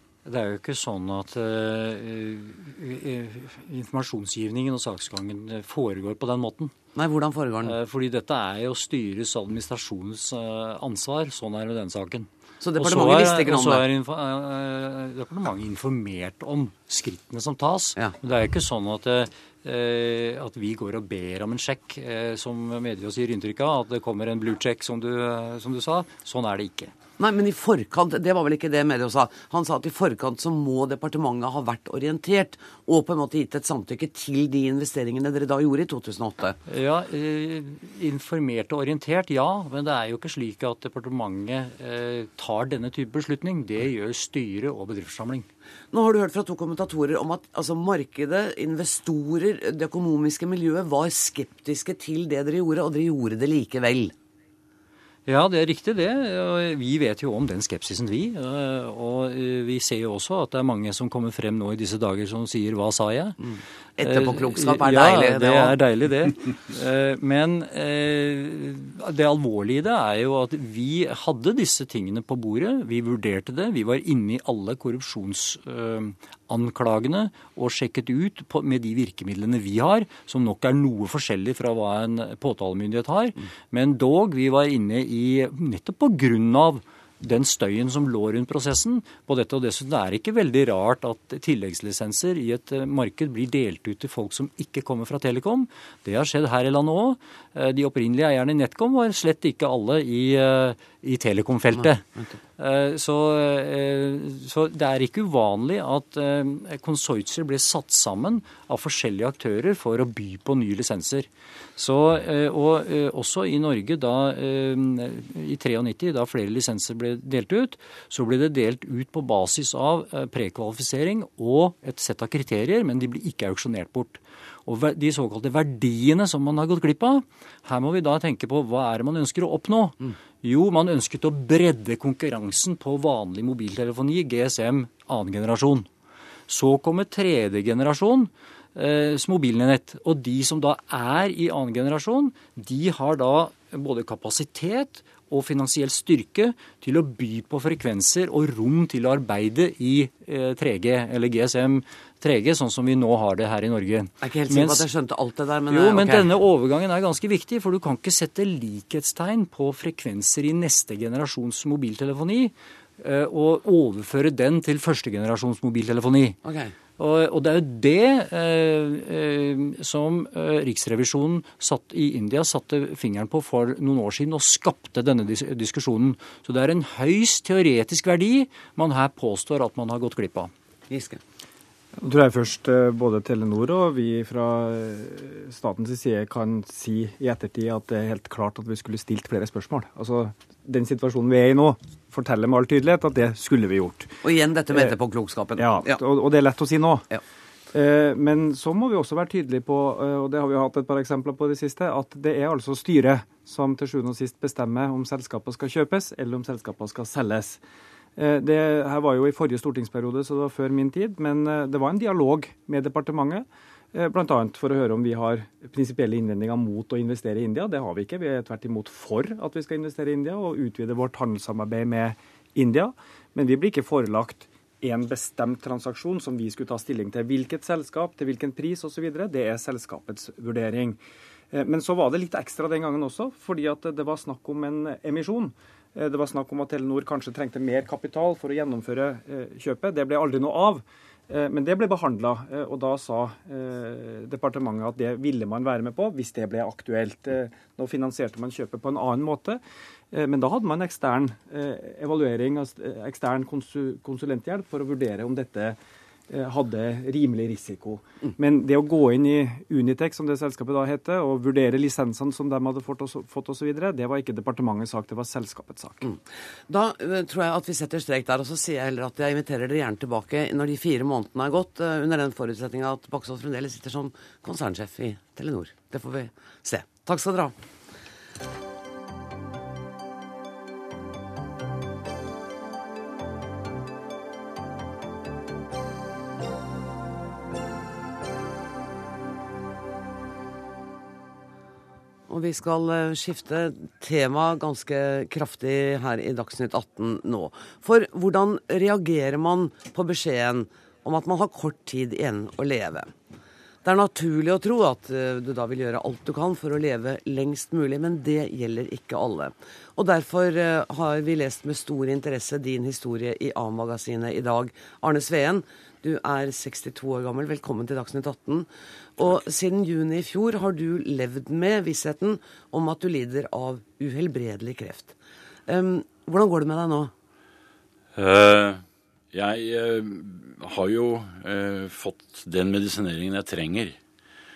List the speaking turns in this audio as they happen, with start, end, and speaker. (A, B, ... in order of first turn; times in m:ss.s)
0:00.2-0:06.7 A
0:06.9-0:07.7 B
0:07.6-0:26.9 A
0:12.6-0:13.8 B
0:27.2-0:36.6 B
0:36.6-0:45.5 A
0:45.9-0:54.1 B
0:55.3-1:03.4 A
1:03.4-1:05.7 B
1:04.0-1:42.0 A
1:42.6-2:15.9 A
2:16.5-2:34.8 A
2:34.2-2:36.3 B
2:35.7-2:46.4 A
2:46.4-2:46.7 B
2:47.0-3:00.5 A
3:00.9-3:01.2 B
3:02.0-3:14.1 C
3:14.2-3:16.0 B
3:15.6-3:17.0 C
3:17.7-3:27.6 C
3:28.2-3:51.0 C
3:51.5-4:09.6 C
4:10.1-4:15.8 C
4:16.3-4:26.0 C
4:26.0-4:37.5 B
4:52.3-5:03.1 B
5:03.8-5:25.1 B
5:25.7-5:27.1 B
5:28.1-5:34.0 D